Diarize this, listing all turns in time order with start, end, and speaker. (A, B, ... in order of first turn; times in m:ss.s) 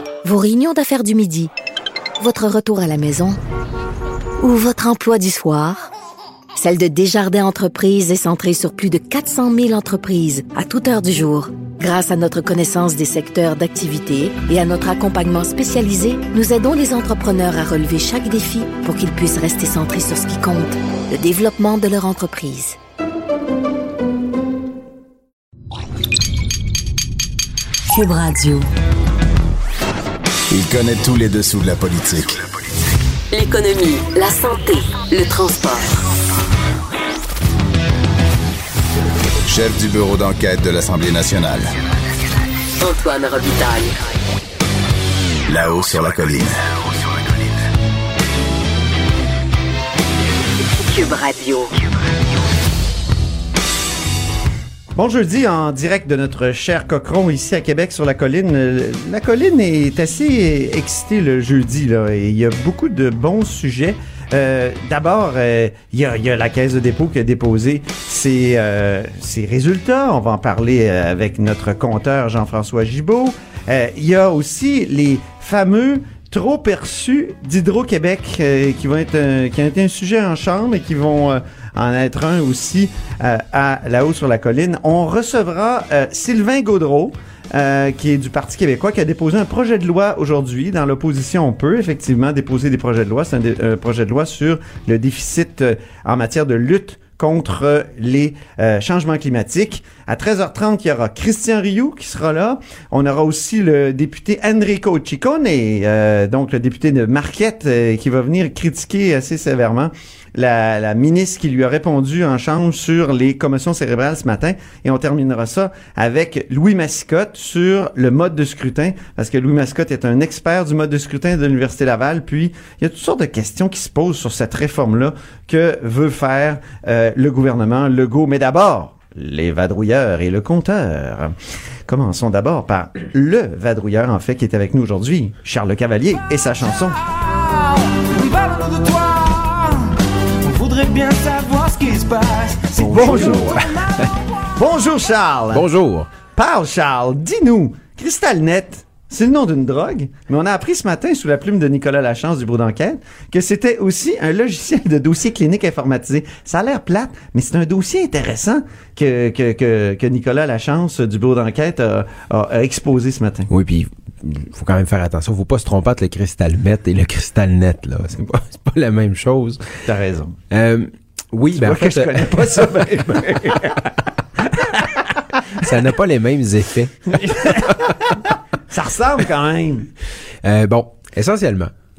0:00.2-0:01.5 A
0:02.2-0:03.4 A
0:04.4-0:05.9 A
0:06.5-0:22.8 A
0:27.9-0:28.6 B
0:30.5-0:32.4 C
0:33.3-0:35.8 B
0:39.5-0:41.7 C
0:42.8-0:43.9 B
0:45.5-0:46.7 C
0:50.9-0:51.7 B
0:54.9-2:11.3 D
2:11.9-2:17.0 D
2:18.0-2:19.7 E
2:20.4-2:23.8 E
2:22.8-2:23.7 F
2:22.8-2:23.6 D
2:24.6-2:25.6 D
2:25.5-2:26.1 F
2:26.4-2:43.5 D
2:43.5-2:49.8 F
2:49.8-2:50.3 D
2:50.5-2:53.8 F
2:51.6-2:53.9 D
2:54.4-2:55.0 D
2:55.5-2:58.0 F
2:57.1-2:59.9 D
3:00.4-3:01.7 F